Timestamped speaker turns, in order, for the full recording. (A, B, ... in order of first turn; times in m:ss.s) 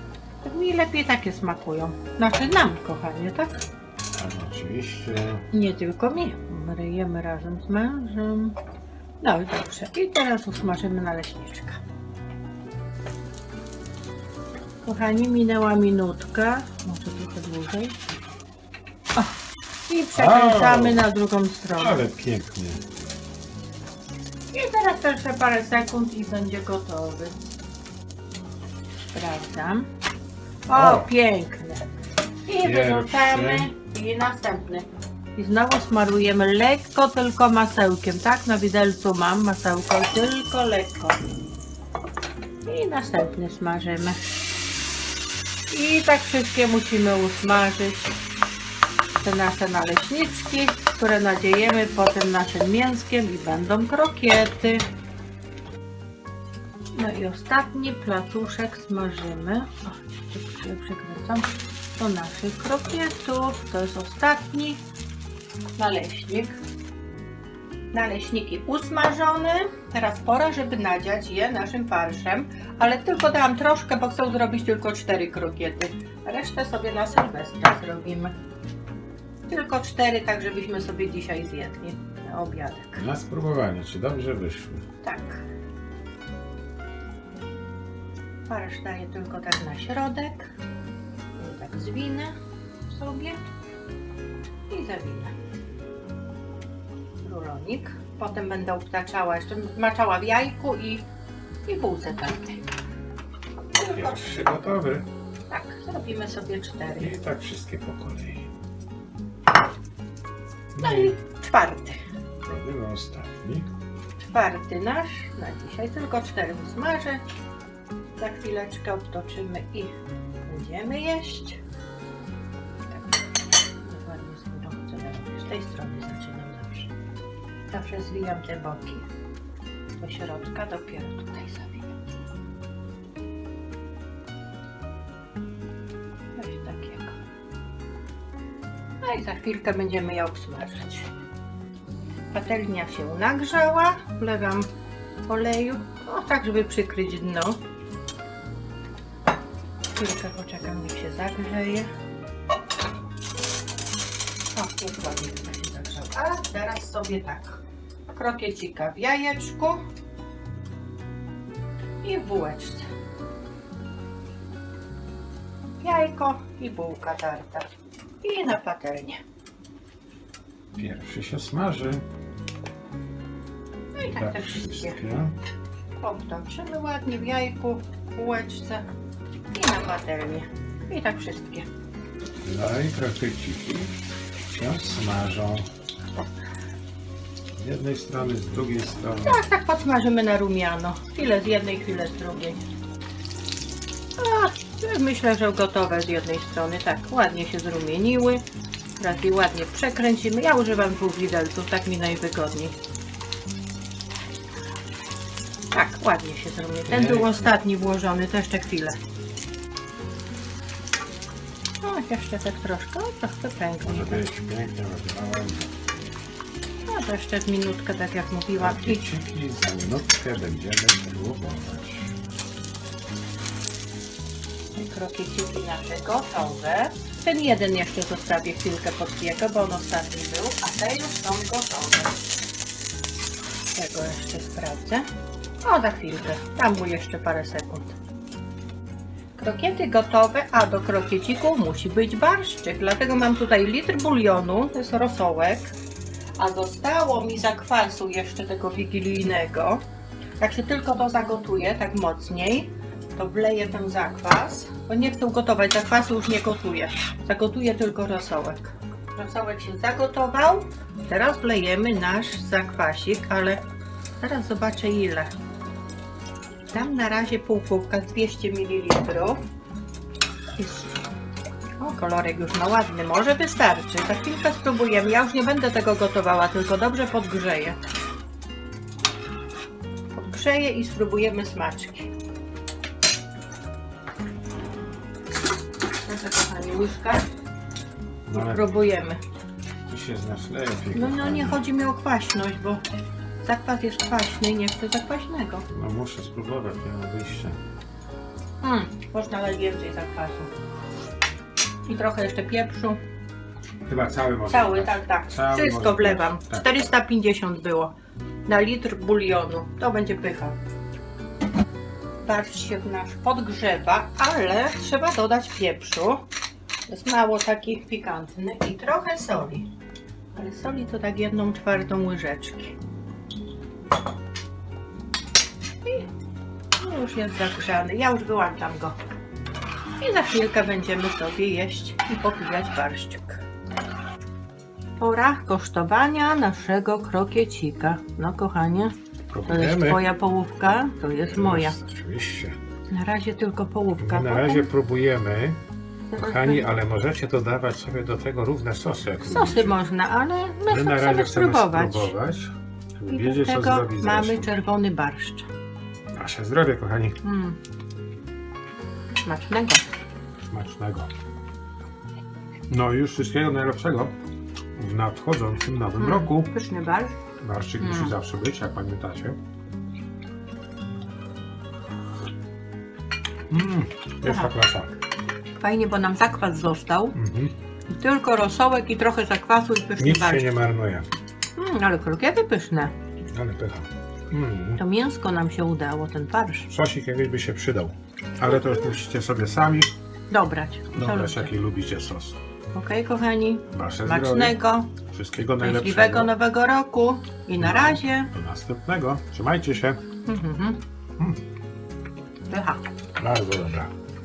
0:00.4-0:03.6 A
0:04.2-0:05.4 B
0:05.5-0:08.6 A
0:09.2-0:11.8 A
0:14.8-0:18.0 A
0:19.9-0:22.0 A
0:20.2-0:21.0 B
0:21.8-0:22.8 B
0:24.5-0:27.4 A
0:29.1-0:29.9 A
0:30.7-0:31.8 A
0:30.7-0:31.1 B
0:32.5-0:41.2 A
0:32.6-0:33.7 B
0:42.6-0:44.2 A
0:45.7-0:48.2 A
0:49.2-0:54.8 A
0:57.0-1:04.8 A
1:05.8-1:06.6 A
1:07.9-1:18.4 A
1:19.5-1:23.0 A
1:23.0-1:24.8 B
1:25.0-1:25.5 A
1:28.5-1:30.5 A
1:31.4-1:32.4 A
1:32.9-1:33.4 A
1:34.7-1:35.3 A
1:37.2-1:41.1 A
1:41.7-1:42.7 A
1:43.8-1:44.5 A
1:43.9-1:45.1 B
1:45.5-1:47.2 A
1:47.0-1:48.5 B
1:50.8-1:51.2 B
1:50.8-1:52.0 A
1:52.4-1:53.7 B
1:54.2-1:57.2 A
1:58.2-2:01.6 A
2:02.9-2:03.2 A
2:03.8-2:06.9 A
2:07.7-2:09.1 A
2:10.0-2:12.0 A
2:16.4-2:17.2 A
2:19.0-2:21.1 A
2:22.3-2:24.7 A
2:25.3-2:27.6 A
2:30.0-2:31.9 A
2:34.6-2:37.6 A
2:38.1-2:39.8 A
2:42.0-2:42.9 A
2:45.8-2:47.7 A
2:48.2-2:49.2 A
2:50.8-2:52.0 B
2:53.9-2:55.0 A
2:54.0-2:55.4 B
2:56.0-2:58.9 A
2:59.5-3:01.7 A
3:02.4-3:04.0 B
3:04.5-3:05.7 B
3:07.6-3:09.4 B
3:09.2-3:12.6 A
3:14.2-3:18.4 A
3:19.0-3:22.8 A
3:25.7-3:29.0 A
3:26.9-3:27.5 B
3:31.8-3:34.2 A
3:33.8-3:35.8 B
3:36.9-3:39.0 A
3:38.6-3:42.1 B
3:44.8-3:52.2 A
3:53.8-3:55.1 A
3:55.6-3:58.0 A
3:59.4-4:05.8 A
4:06.4-4:09.8 A
4:10.4-4:23.6 A
4:24.2-4:25.3 A
4:26.7-4:29.4 A
4:30.6-4:31.0 A
4:31.8-4:37.8 A
4:40.1-4:42.1 A
4:46.1-4:47.2 A
4:48.3-4:48.6 B
4:48.3-4:49.2 A
4:49.9-4:51.6 B
4:50.9-4:52.8 A
4:53.4-4:55.7 A
4:55.7-4:57.6 B
4:58.6-5:00.5 A
5:01.9-5:03.0 A
5:03.9-5:06.7 B
5:04.5-5:08.0 A
5:08.5-5:10.6 A
5:12.2-5:16.3 A
5:16.9-5:19.7 A
5:20.4-5:22.8 A
5:25.8-5:26.1 A
5:26.8-5:29.0 A
5:30.0-5:33.4 A
5:35.0-5:38.9 A
5:39.3-5:40.0 B
5:39.5-5:41.8 A
5:41.3-5:42.6 B
5:42.9-5:44.7 A
5:44.0-5:45.6 B
5:46.1-5:46.7 A
5:46.2-5:49.7 B
5:49.3-5:52.1 A
5:50.7-5:54.5 B
5:53.1-5:55.5 A
5:56.2-5:57.2 B
5:57.2-5:57.6 A
5:59.2-5:59.8 A
6:00.5-6:01.1 B
6:02.7-6:04.1 B
6:04.8-6:06.5 B
6:06.0-6:07.2 A
6:07.4-6:09.4 B
6:07.8-6:08.2 A
6:13.5-6:14.9 B
6:14.2-6:14.5 A
6:15.6-6:17.2 A
6:17.2-6:17.5 B
6:17.9-6:20.5 A
6:20.0-6:21.1 B
6:21.6-6:22.9 A
6:23.3-6:24.8 B
6:24.8-6:26.7 A
6:26.7-6:29.9 B
6:28.5-6:28.9 A
6:30.3-6:31.5 A
6:30.9-6:32.4 B
6:32.7-6:34.9 A
6:33.7-6:34.6 B
6:35.1-6:36.3 B
6:35.6-6:38.3 A
6:37.6-6:40.0 B
6:40.3-6:40.8 A
6:42.5-6:42.8 A
6:43.2-6:43.9 B